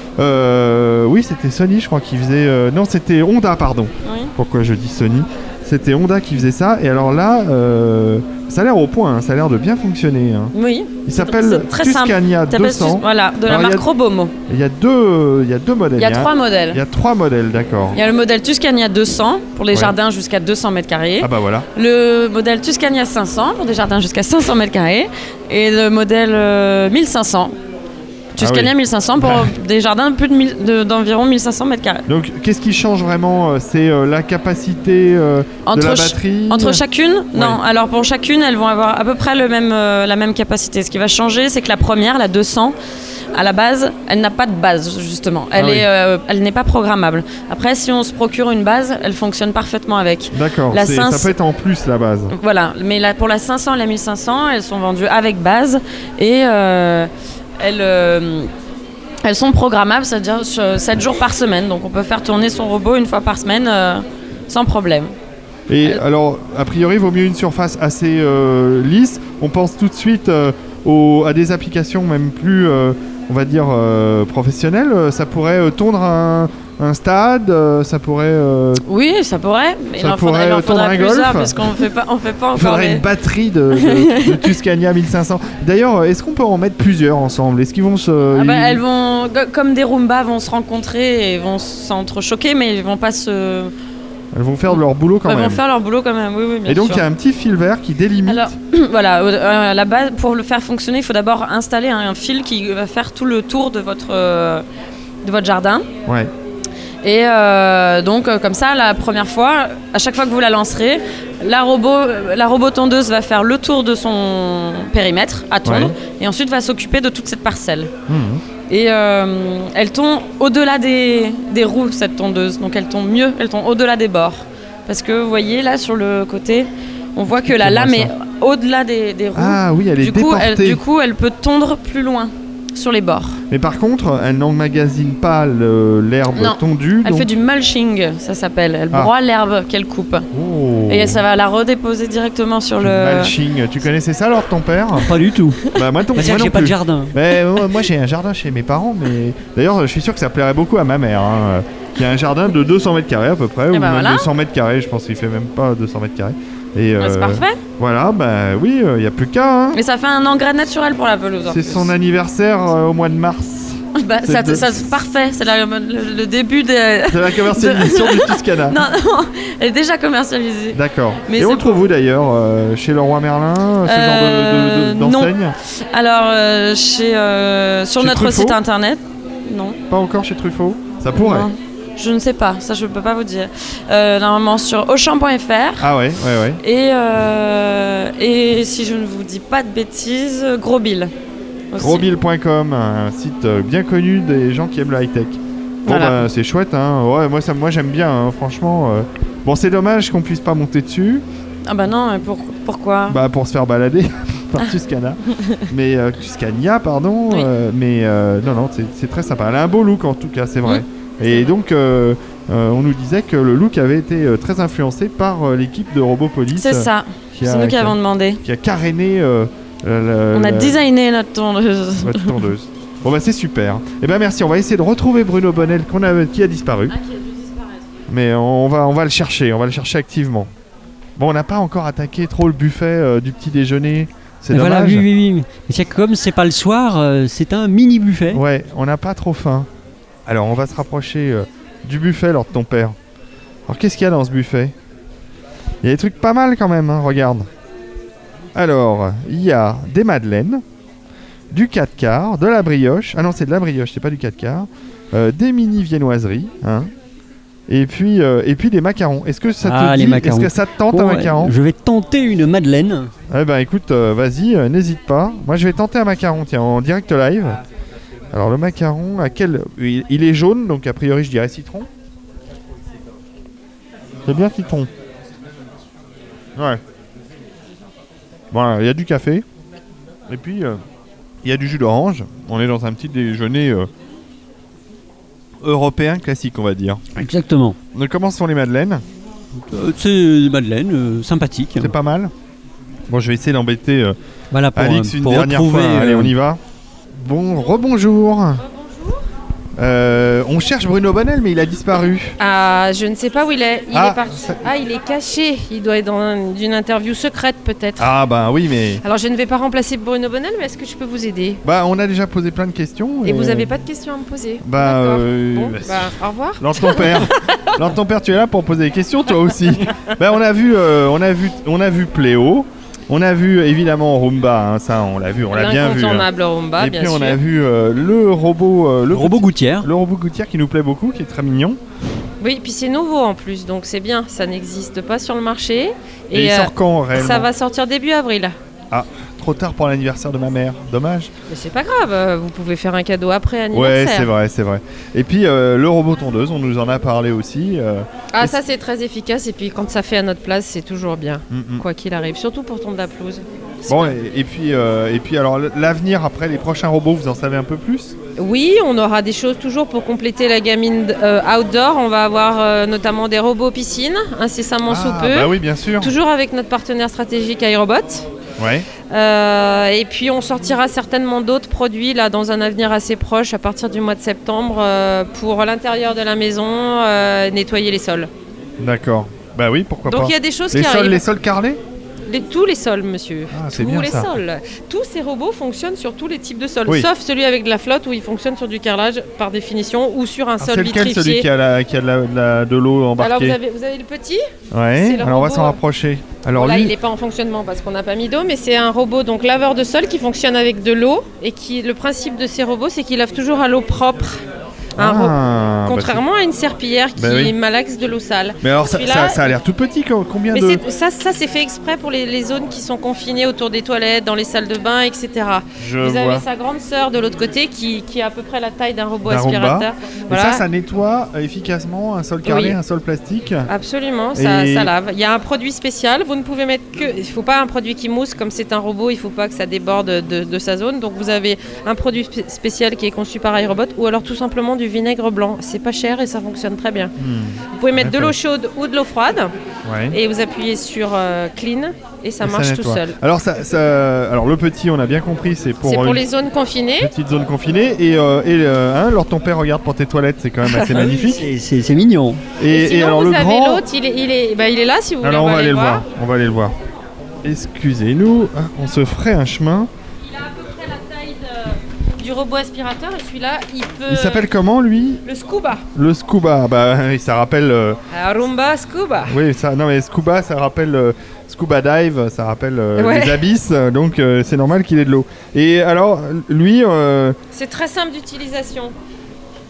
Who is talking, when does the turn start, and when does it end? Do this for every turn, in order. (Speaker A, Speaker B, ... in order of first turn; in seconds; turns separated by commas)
Speaker A: 0.2-10.5, Speaker B: 4.0-4.3, Speaker B: 10.5-14.3, Speaker A: 11.1-13.8, Speaker A: 14.5-18.0, Speaker B: 16.0-16.8, Speaker B: 17.9-27.5, Speaker A: 21.2-21.7, Speaker B: 28.4-32.0, Speaker A: 28.4-29.5, Speaker A: 32.1-36.8, Speaker B: 35.6-42.7, Speaker A: 37.3-37.6, Speaker B: 43.3-51.3, Speaker A: 45.5-45.9, Speaker A: 50.3-52.3, Speaker B: 52.3-58.5, Speaker B: 59.2-65.1, Speaker A: 65.7-78.8, Speaker B: 78.8-83.0, Speaker A: 80.0-81.8, Speaker A: 82.5-88.8, Speaker B: 83.7-84.5, Speaker B: 88.3-93.7, Speaker A: 94.3-95.6, Speaker B: 95.2-97.0, Speaker A: 96.7-98.5, Speaker B: 98.2-104.6, Speaker B: 105.2-105.9, Speaker A: 106.0-106.3, Speaker B: 107.0-117.9, Speaker A: 115.6-115.9, Speaker A: 118.1-118.4, Speaker B: 118.7-133.4, Speaker A: 127.3-128.1, Speaker A: 129.3-130.8, Speaker A: 133.5-137.3, Speaker B: 136.3-140.2, Speaker A: 140.3-141.2, Speaker B: 140.9-143.3, Speaker A: 142.8-145.1, Speaker C: 145.0-145.6, Speaker A: 145.7-159.8, Speaker C: 146.1-147.1, Speaker B: 153.7-154.3, Speaker B: 157.0-157.6, Speaker B: 159.7-161.9, Speaker A: 161.5-164.8, Speaker B: 163.9-171.8, Speaker A: 167.1-168.8, Speaker A: 170.7-175.6, Speaker B: 173.8-179.8, Speaker A: 178.0-178.6, Speaker A: 179.9-181.5, Speaker B: 181.1-185.9, Speaker A: 185.8-186.6, Speaker B: 186.6-191.1, Speaker B: 191.7-192.1, Speaker A: 191.8-201.2, Speaker B: 195.8-196.2, Speaker B: 201.7-203.2, Speaker A: 203.1-220.8, Speaker B: 205.4-205.6, Speaker B: 210.6-211.5, Speaker B: 216.5-218.4, Speaker B: 220.3-222.4, Speaker A: 222.0-227.0, Speaker A: 228.1-230.5, Speaker A: 231.2-235.1, Speaker C: 234.5-238.4, Speaker A: 238.3-239.7, Speaker A: 240.2-242.9, Speaker A: 243.7-244.7, Speaker A: 245.8-247.5, Speaker A: 248.5-250.6, Speaker A: 251.5-256.9, Speaker A: 257.7-261.6, Speaker C: 259.6-263.1, Speaker A: 263.3-267.6, Speaker A: 268.3-271.9, Speaker A: 274.2-274.9, Speaker A: 276.6-276.8, Speaker A: 278.5-279.4, Speaker A: 280.3-280.8, Speaker A: 281.4-283.9, Speaker A: 285.6-287.0, Speaker C: 287.1-287.8, Speaker A: 287.9-289.0, Speaker C: 289.7-291.9, Speaker A: 291.8-292.3, Speaker A: 293.1-294.1, Speaker C: 294.5-296.3, Speaker A: 294.7-296.6, Speaker A: 297.1-298.6, Speaker D: 298.6-299.2, Speaker A: 299.8-302.4, Speaker D: 302.4-308.1, Speaker A: 303.9-304.6, Speaker A: 308.0-309.0, Speaker D: 309.0-311.6, Speaker A: 311.6-313.7, Speaker D: 313.2-317.8, Speaker A: 314.6-331.8, Speaker D: 325.5-327.4, Speaker C: 329.1-329.9, Speaker D: 332.4-338.6, Speaker A: 336.3-337.5, Speaker A: 338.9-341.3, Speaker D: 341.5-344.3, Speaker A: 343.7-348.6, Speaker D: 348.3-354.1, Speaker A: 351.5-351.9, Speaker A: 353.9-358.2, Speaker D: 358.4-368.3, Speaker A: 364.9-366.1, Speaker A: 368.6-368.9, Speaker D: 369.1-378.3, Speaker A: 378.8-381.8, Speaker D: 380.1-381.2, Speaker D: 382.3-391.5, Speaker A: 383.5-384.4, Speaker A: 390.6-393.6, Speaker D: 393.2-394.4, Speaker A: 394.7-396.9, Speaker D: 394.9-395.8, Speaker D: 396.5-404.4, Speaker A: 405.0-406.2, Speaker D: 405.0-409.6, Speaker A: 407.2-407.5, Speaker A: 408.6-410.8, Speaker D: 410.5-420.6, Speaker A: 415.8-416.4, Speaker A: 419.3-423.7, Speaker D: 422.4-422.8, Speaker D: 423.7-437.1, Speaker A: 424.3-424.9, Speaker A: 437.2-438.3, Speaker D: 437.7-439.5, Speaker A: 439.8-440.2, Speaker D: 440.1-443.2, Speaker A: 442.4-446.2, Speaker D: 445.8-447.1, Speaker A: 447.0-451.5, Speaker C: 450.8-452.4, Speaker A: 452.6-453.8, Speaker D: 452.7-456.1, Speaker A: 455.2-456.8, Speaker A: 457.4-459.9, Speaker D: 460.2-464.4, Speaker A: 464.1-465.2, Speaker D: 465.2-465.9, Speaker A: 465.9-468.0, Speaker D: 468.1-469.4, Speaker A: 469.3-477.4, Speaker D: 472.9-473.4, Speaker D: 477.5-478.9